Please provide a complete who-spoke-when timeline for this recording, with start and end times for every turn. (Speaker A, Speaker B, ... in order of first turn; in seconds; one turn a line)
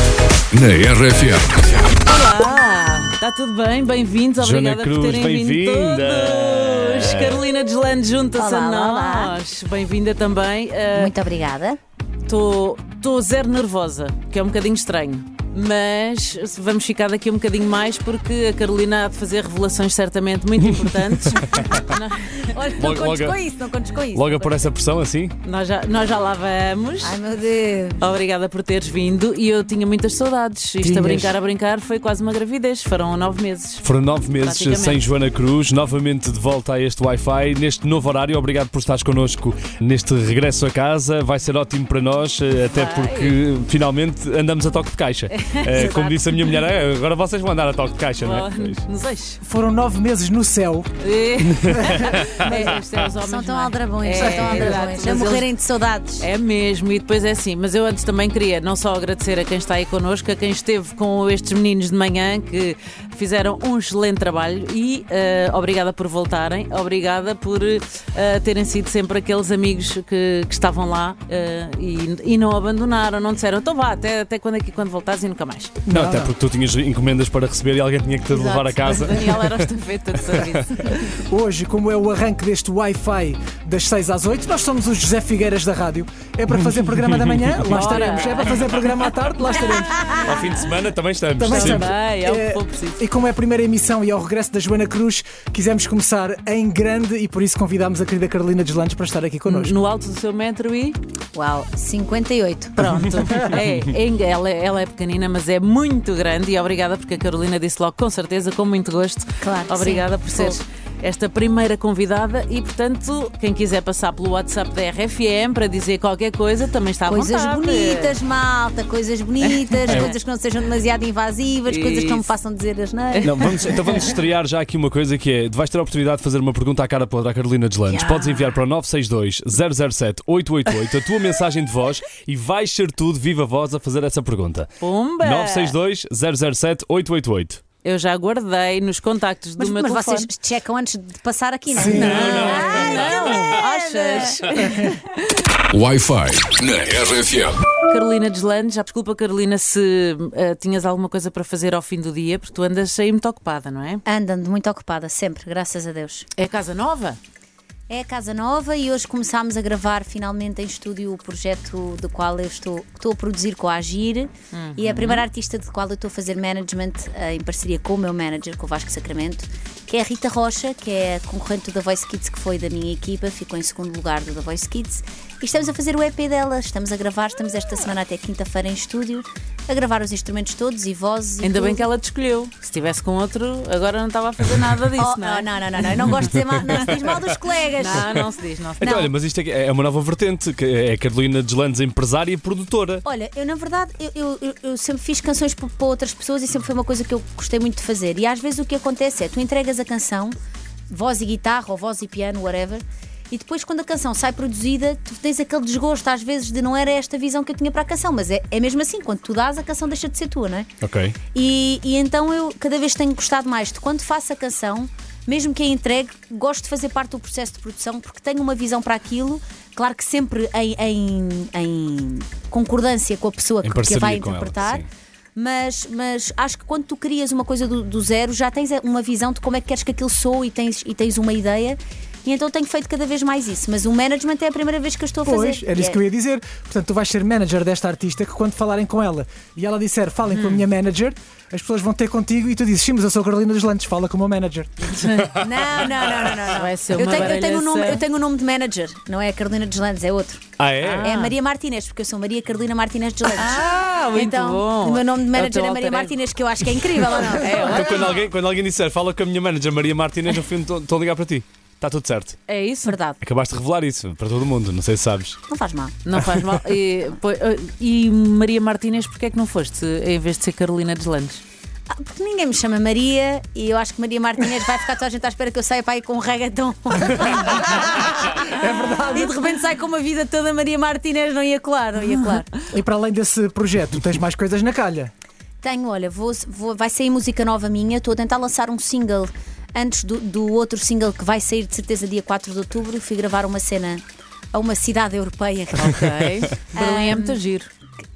Speaker A: 0.5-2.0
Speaker B: 2.0-11.1
Speaker C: 4.4-7.4
Speaker D: 8.4-9.3
Speaker D: 10.9-11.8
Speaker B: 12.3-22.6
Speaker C: 21.2-21.7
Speaker D: 22.5-24.5
Speaker C: 22.8-23.4
Speaker C: 24.1-25.4
Speaker B: 25.4-27.2
Speaker D: 27.0-28.0
Speaker B: 28.0-35.0
Speaker E: 30.8-31.4
Speaker C: 33.8-48.8
Speaker B: 42.7-43.4
Speaker B: 45.3-46.2
Speaker B: 48.2-49.4
Speaker E: 49.4-50.9
Speaker B: 51.0-55.5
Speaker D: 52.4-56.3
Speaker E: 54.1-55.1
Speaker B: 56.2-75.8
Speaker E: 75.9-76.3
Speaker C: 75.9-79.6
Speaker B: 78.3-81.2
Speaker E: 81.3-90.2
Speaker C: 86.6-88.0
Speaker B: 87.7-88.8
Speaker B: 89.6-90.3
Speaker D: 90.0-90.2
Speaker C: 90.2-91.9
Speaker E: 91.4-99.8
Speaker B: 91.5-93.0
Speaker B: 99.5-101.0
Speaker D: 101.3-102.8
Speaker B: 102.8-118.1
Speaker D: 109.4-110.6
Speaker D: 117.1-123.3
Speaker B: 119.6-120.1
Speaker C: 119.9-120.1
Speaker B: 121.7-122.3
Speaker C: 123.2-137.6
Speaker B: 134.8-135.8
Speaker B: 137.8-140.3
Speaker D: 139.6-144.7
Speaker E: 141.7-142.4
Speaker B: 141.8-145.0
Speaker C: 141.9-143.4
Speaker A: 145.7-147.6
Speaker B: 147.9-154.0
Speaker D: 154.1-156.3
Speaker B: 156.4-157.2
Speaker D: 157.9-181.9
Speaker B: 164.5-165.2
Speaker B: 181.4-185.5
Speaker D: 185.0-188.3
Speaker B: 187.8-188.9
Speaker D: 188.8-189.1
Speaker C: 188.8-193.1
Speaker D: 193.1-200.4
Speaker D: 200.9-210.7
Speaker C: 210.8-211.2
Speaker D: 211.3-236.0
Speaker C: 223.6-224.9
Speaker E: 235.2-244.9
Speaker B: 240.3-240.6
Speaker B: 244.8-245.4
Speaker D: 245.3-250.4
Speaker B: 246.5-248.0
Speaker C: 250.6-251.1
Speaker B: 250.8-251.3
Speaker D: 251.0-257.8
Speaker B: 253.4-256.2
Speaker B: 257.4-258.1
Speaker C: 257.6-262.4
Speaker B: 262.5-263.0
Speaker D: 262.9-263.2
Speaker C: 263.2-265.4
Speaker D: 265.5-265.9
Speaker B: 266.0-271.4
Speaker D: 271.9-278.3
Speaker E: 278.5-279.4
Speaker D: 279.1-282.5
Speaker E: 282.7-285.1
Speaker D: 285.6-296.2
Speaker B: 295.9-297.7
Speaker D: 296.7-297.4